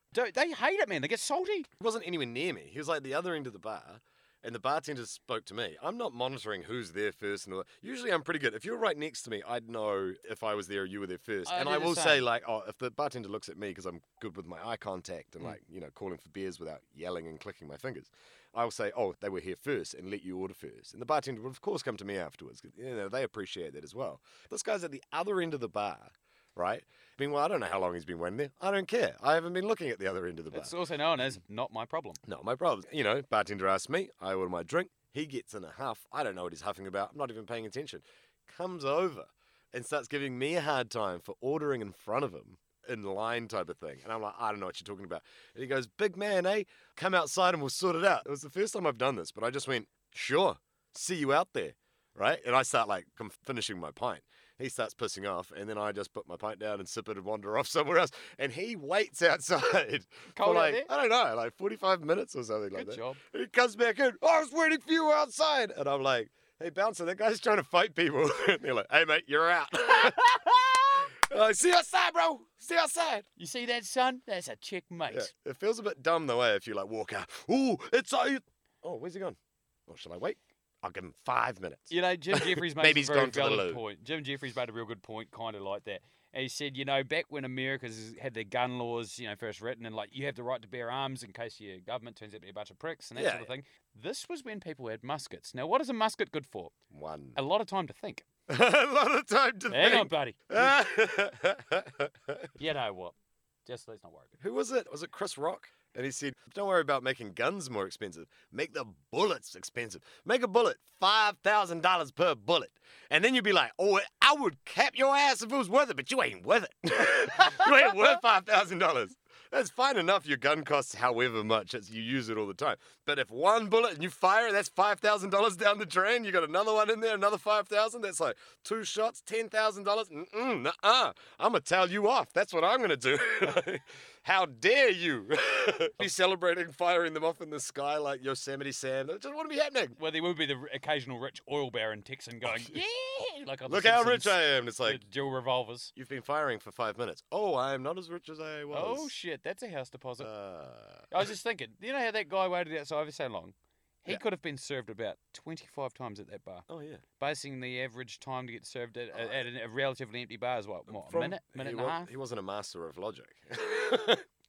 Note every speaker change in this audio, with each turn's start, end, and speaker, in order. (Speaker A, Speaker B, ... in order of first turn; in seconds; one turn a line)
Speaker A: 0.1-1.7
Speaker B: 1.8-30.7
Speaker A: 11.5-12.2
Speaker A: 30.5-32.2
Speaker B: 32.2-73.3
Speaker A: 60.3-60.9
Speaker A: 62.8-63.2
Speaker A: 73.4-75.3
Speaker B: 75.1-83.8
Speaker A: 81.9-96.7
Speaker B: 93.2-93.5
Speaker B: 96.9-97.4
Speaker A: 97.4-98.2
Speaker B: 98.5-102.5
Speaker A: 99.7-100.8
Speaker A: 102.6-103.1
Speaker A: 103.7-104.3
Speaker B: 104.4-140.0
Speaker A: 140.0-145.9
Speaker B: 142.5-142.8
Speaker B: 143.7-145.0
Speaker B: 145.9-149.1
Speaker A: 148.7-150.3
Speaker B: 150.2-151.3
Speaker A: 151.1-156.7
Speaker B: 156.7-157.0
Speaker A: 157.2-162.1
Speaker B: 160.9-164.2